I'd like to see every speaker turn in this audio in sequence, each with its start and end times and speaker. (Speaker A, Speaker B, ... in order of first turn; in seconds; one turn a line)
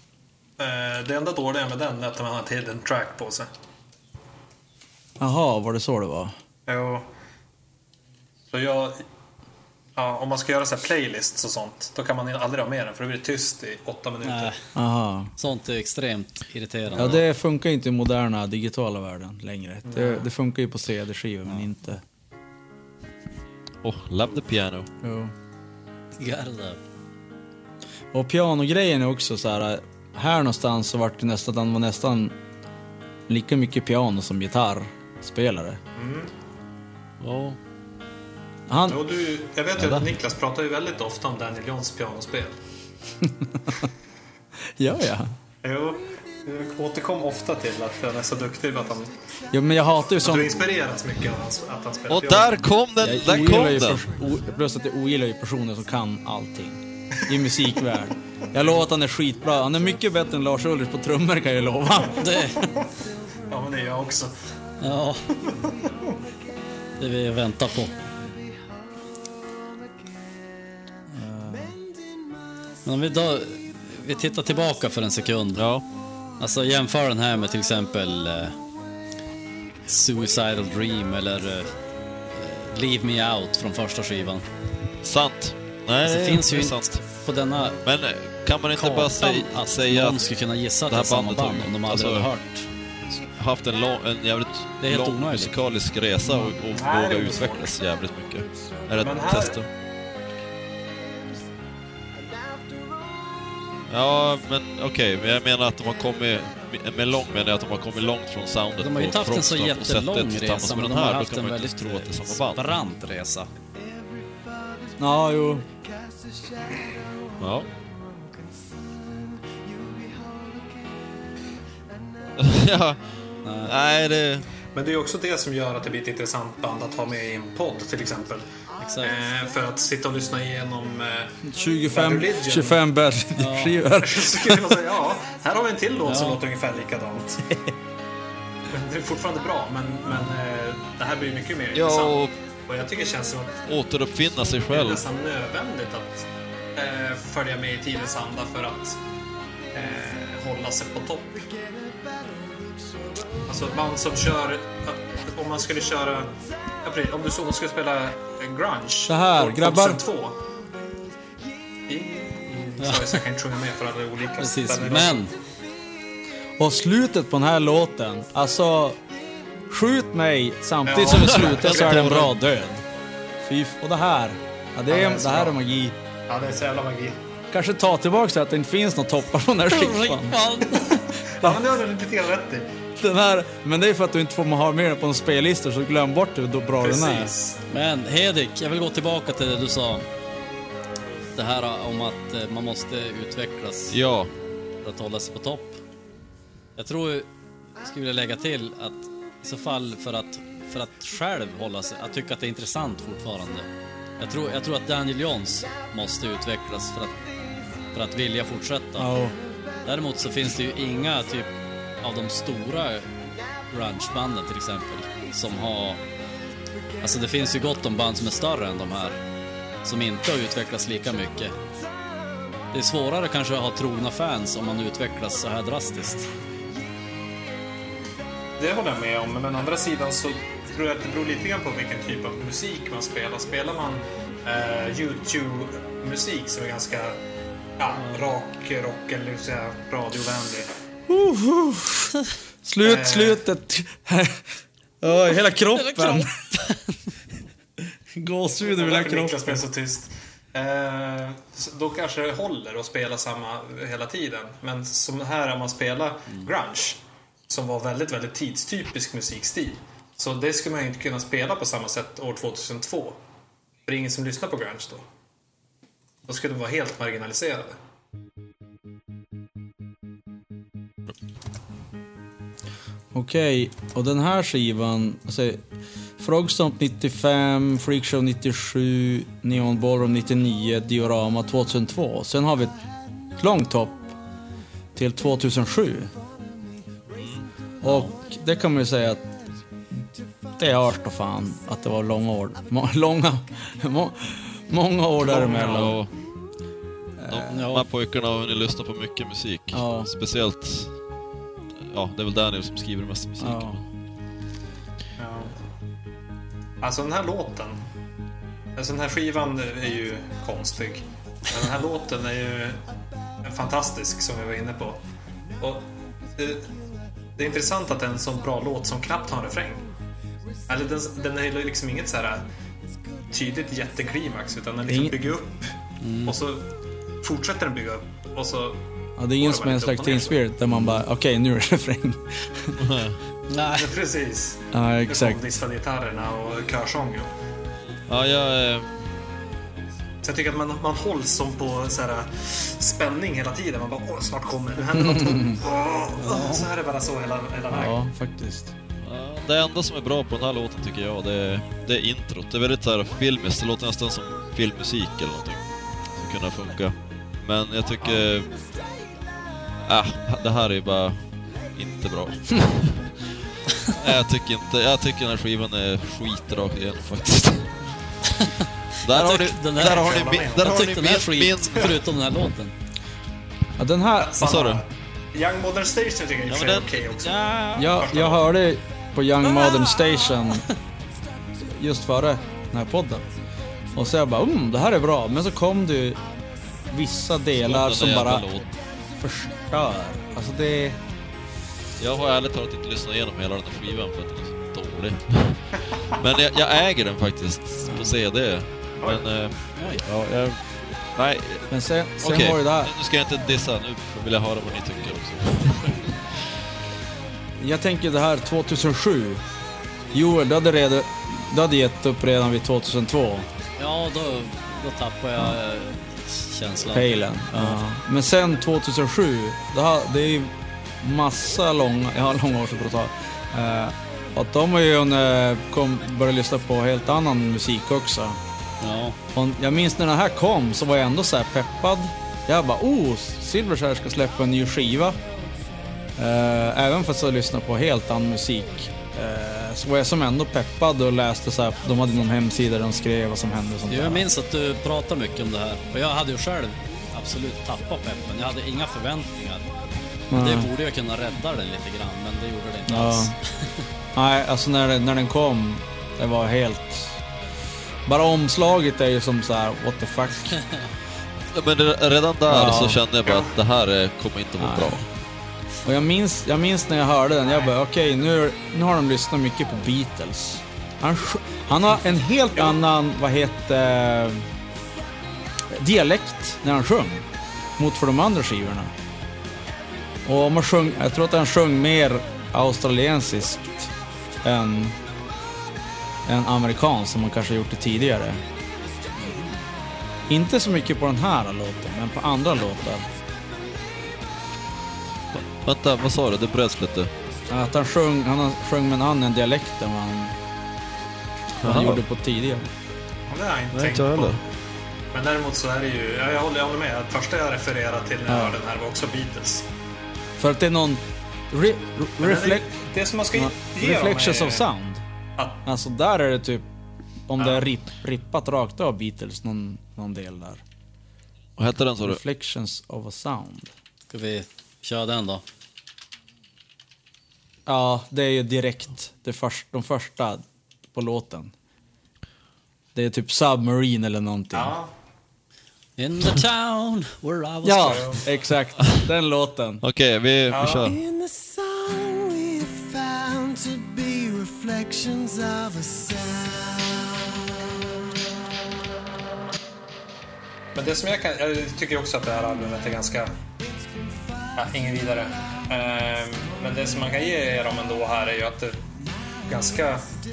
Speaker A: 0.6-3.5
Speaker B: 5.2-6.3
Speaker A: 6.7-7.1
Speaker A: 8.5-9.1
Speaker A: 10.0-14.6
Speaker C: 14.2-14.6
Speaker B: 14.8-15.3
Speaker C: 15.4-17.2
Speaker B: 16.9-22.0
Speaker A: 19.9-20.3
Speaker D: 23.8-24.9
Speaker B: 25.0-25.3
Speaker C: 26.2-26.8
Speaker B: 28.1-32.4
Speaker B: 33.3-35.8
Speaker A: 36.0-36.3
Speaker D: 37.2-37.6
Speaker B: 38.7-39.1
Speaker A: 38.9-42.6
Speaker D: 39.8-40.1
Speaker B: 43.2-43.9
Speaker B: 44.8-45.3
Speaker A: 45.6-49.1
Speaker B: 49.5-50.7
Speaker A: 50.2-52.6
Speaker D: 52.1-54.1
Speaker B: 53.0-62.4
Speaker C: 62.2-62.8
Speaker A: 63.5-64.3
Speaker C: 64.8-65.4
Speaker A: 65.3-65.8
Speaker C: 67.0-67.9
Speaker B: 71.1-71.8
Speaker C: 72.8-75.7
Speaker D: 75.6-75.8
Speaker C: 76.4-78.6
Speaker C: 79.9-81.7
Speaker C: 82.3-84.5
Speaker D: 85.0-87.0
Speaker C: 86.0-87.8
Speaker D: 87.8-90.3
Speaker C: 88.7-92.7
Speaker D: 90.9-92.3
Speaker D: 93.3-99.7
Speaker C: 94.8-95.5
Speaker B: 96.3-96.5
Speaker A: 96.8-97.7
Speaker A: 99.0-99.6
Speaker D: 103.9-112.7
Speaker C: 108.8-113.5
Speaker E: 113.9-115.0
Speaker B: 115.0-115.7
Speaker E: 115.7-117.0
Speaker D: 117.4-117.7
Speaker E: 119.7-120.6
Speaker D: 122.4-123.1
Speaker C: 123.4-123.7
Speaker D: 123.6-124.5
Speaker A: 124.7-128.5
Speaker C: 128.8-129.2
Speaker A: 129.0-132.8
Speaker B: 131.4-134.8
Speaker C: 133.4-133.8
Speaker A: 134.0-137.4
Speaker C: 136.1-136.4
Speaker A: 138.7-143.7
Speaker D: 141.7-142.3
Speaker D: 143.7-145.0
Speaker A: 144.7-149.0
Speaker A: 149.7-151.5
Speaker A: 153.5-160.4
Speaker B: 159.1-160.0
Speaker A: 161.9-165.2
Speaker C: 162.8-163.2
Speaker C: 164.4-165.3
Speaker B: 166.6-169.0
Speaker B: 169.7-172.8
Speaker A: 170.8-172.2
Speaker D: 171.1-172.3
Speaker B: 173.4-176.0
Speaker A: 174.9-175.6
Speaker A: 176.3-177.2
Speaker B: 177.5-181.6
Speaker C: 179.7-181.0
Speaker A: 181.3-182.7
Speaker B: 183.0-187.3
Speaker A: 186.8-187.6
Speaker C: 187.7-190.1
Speaker C: 191.3-194.0
Speaker D: 193.9-194.3
Speaker C: 194.8-195.8
Speaker C: 196.8-197.3
Speaker C: 197.8-207.2
Speaker C: 207.9-209.2
Speaker B: 209.0-209.4
Speaker C: 209.8-213.1
Speaker C: 213.7-216.0
Speaker C: 217.0-219.2
Speaker C: 219.8-221.6
Speaker C: 222.7-226.3
Speaker A: 228.6-237.2
Speaker A: 237.8-240.7
Speaker C: 238.0-238.3
Speaker B: 241.1-246.6
Speaker A: 242.8-243.4
Speaker C: 245.7-247.0
Speaker B: 247.8-249.6
Speaker A: 248.6-263.2
Speaker A: 263.9-265.1
Speaker A: 266.3-267.8
Speaker B: 273.1-275.6
Speaker B: 276.2-282.8
Speaker B: 283.4-284.2
Speaker B: 284.9-286.1
Speaker D: 287.1-287.5
Speaker B: 287.8-289.3
Speaker C: 287.9-288.1
Speaker B: 290.6-296.0
Speaker A: 295.2-295.9
Speaker D: 295.5-296.1
Speaker B: 297.2-297.5
Speaker D: 297.3-300.9
Speaker C: 297.5-297.9
Speaker B: 299.7-300.1
Speaker D: 301.8-303.8
Speaker B: 303.4-303.8
Speaker A: 305.2-305.6
Speaker A: 306.8-307.8
Speaker A: 308.8-312.8
Speaker A: 313.4-315.0
Speaker A: 315.6-316.7
Speaker A: 317.4-319.9
Speaker A: 320.7-322.5
Speaker A: 323.3-328.8
Speaker B: 324.9-325.2
Speaker C: 326.0-326.4
Speaker B: 329.2-332.8
Speaker A: 329.4-330.4
Speaker D: 332.8-333.2
Speaker C: 333.5-333.9
Speaker A: 333.8-337.3
Speaker B: 334.7-335.5
Speaker D: 338.1-338.9
Speaker A: 340.2-348.0
Speaker B: 344.9-345.6
Speaker C: 346.2-346.7
Speaker B: 347.7-348.7
Speaker D: 349.0-358.5
Speaker D: 359.9-363.2
Speaker D: 363.8-367.8
Speaker C: 368.2-372.7
Speaker D: 369.0-372.0
Speaker A: 369.8-370.8
Speaker B: 373.8-374.4
Speaker A: 374.2-378.5
Speaker D: 374.4-374.8
Speaker D: 376.5-378.1
Speaker B: 377.8-380.6
Speaker B: 381.6-383.2
Speaker B: 383.9-386.2
Speaker B: 386.9-388.5
Speaker D: 387.6-388.7
Speaker B: 389.2-391.0
Speaker D: 392.0-406.3
Speaker C: 399.8-400.1
Speaker B: 401.7-402.9
Speaker B: 407.6-409.4
Speaker B: 410.1-413.5
Speaker C: 413.8-417.8
Speaker B: 416.9-428.4
Speaker C: 428.8-429.2
Speaker B: 429.3-435.2
Speaker B: 436.2-444.3
Speaker C: 443.9-449.7
Speaker B: 450.3-450.7
Speaker C: 450.3-453.9
Speaker B: 452.9-453.4
Speaker B: 454.1-457.2
Speaker B: 458.1-460.6
Speaker C: 460.6-460.9
Speaker D: 461.5-465.0
Speaker B: 462.5-463.0
Speaker A: 463.3-463.5
Speaker B: 464.6-465.0
Speaker B: 465.8-474.5
Speaker A: 467.5-467.7
Speaker B: 475.7-477.3
Speaker B: 477.8-478.9
Speaker B: 480.2-485.0
Speaker B: 486.3-488.4
Speaker C: 489.2-489.7
Speaker B: 490.3-493.1
Speaker D: 495.6-497.1
Speaker B: 497.5-500.4
Speaker B: 501.6-502.7
Speaker D: 501.6-502.0
Speaker A: 503.3-504.4
Speaker D: 503.7-504.4
Speaker A: 505.1-509.7
Speaker B: 508.3-508.6
Speaker B: 510.4-512.7
Speaker A: 512.2-514.7
Speaker B: 513.4-515.0
Speaker A: 515.4-515.6
Speaker B: 515.6-516.7
Speaker B: 517.3-520.6
Speaker A: 517.4-517.7
Speaker D: 521.6-522.2
Speaker B: 522.0-523.7
Speaker C: 524.1-525.4
Speaker B: 527.7-531.5
Speaker B: 533.0-534.8
Speaker A: 534.5-534.9
Speaker C: 536.0-538.2
Speaker B: 537.6-539.8
Speaker A: 537.8-538.2
Speaker D: 538.8-539.1
Speaker D: 539.8-541.0
Speaker A: 540.5-541.0
Speaker E: 540.8-547.3
Speaker A: 550.8-553.3
Speaker E: 554.0-554.5
Speaker A: 554.5-558.8
Speaker A: 559.5-560.1